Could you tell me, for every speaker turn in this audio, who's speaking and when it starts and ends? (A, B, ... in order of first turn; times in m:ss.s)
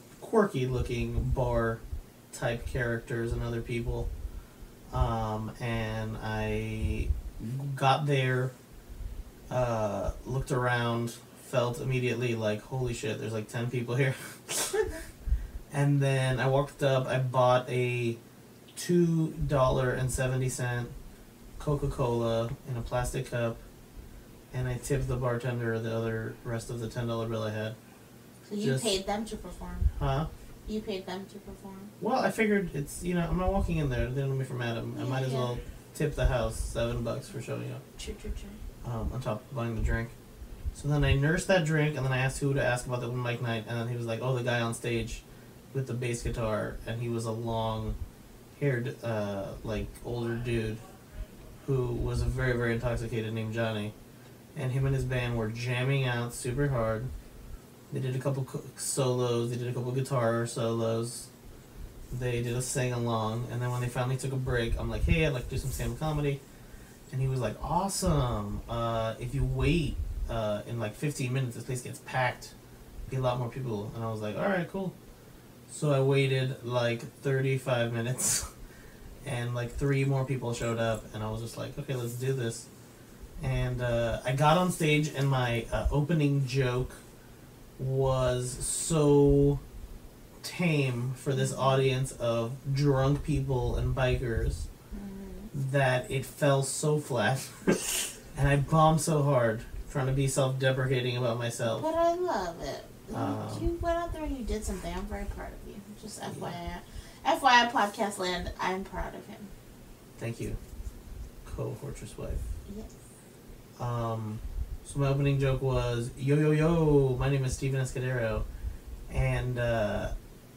0:00.2-0:04.1 A
0:04.9-0:08.5 A
0:09.5-0:14.9 A
0:15.7-0:18.2 A
0:18.7-0:20.9 A
0:21.6-0:23.6 A
0:24.5-0:27.8 A
0:28.4-0:29.9 B
0:28.6-0:28.9 A
0:29.9-0:30.3 A
0:30.6-0:31.9 B
0:32.0-0:37.8 A
0:34.9-0:35.5 B
0:38.0-0:38.6 B
0:38.8-0:40.1 A
0:40.7-0:48.0 A
0:48.5-0:50.8 A
0:51.6-0:53.9 A
0:54.5-0:57.1 A
0:57.9-1:01.3 A
1:02.1-1:06.4 A
1:07.1-1:12.5 A
1:13.1-1:14.9 A
1:15.7-1:18.5 A
1:19.2-1:22.7 A
1:23.4-1:27.0 A
1:27.8-1:29.6 A
1:30.4-1:34.7 A
1:31.3-1:31.8 B
1:34.9-1:35.5 B
1:35.5-1:41.8 A
1:41.6-1:49.5 B
1:43.1-1:43.7 A
1:46.3-1:46.6 A
1:50.2-1:50.6 A
1:51.4-1:52.5 A
1:53.8-1:58.4 A
1:59.1-2:00.1 A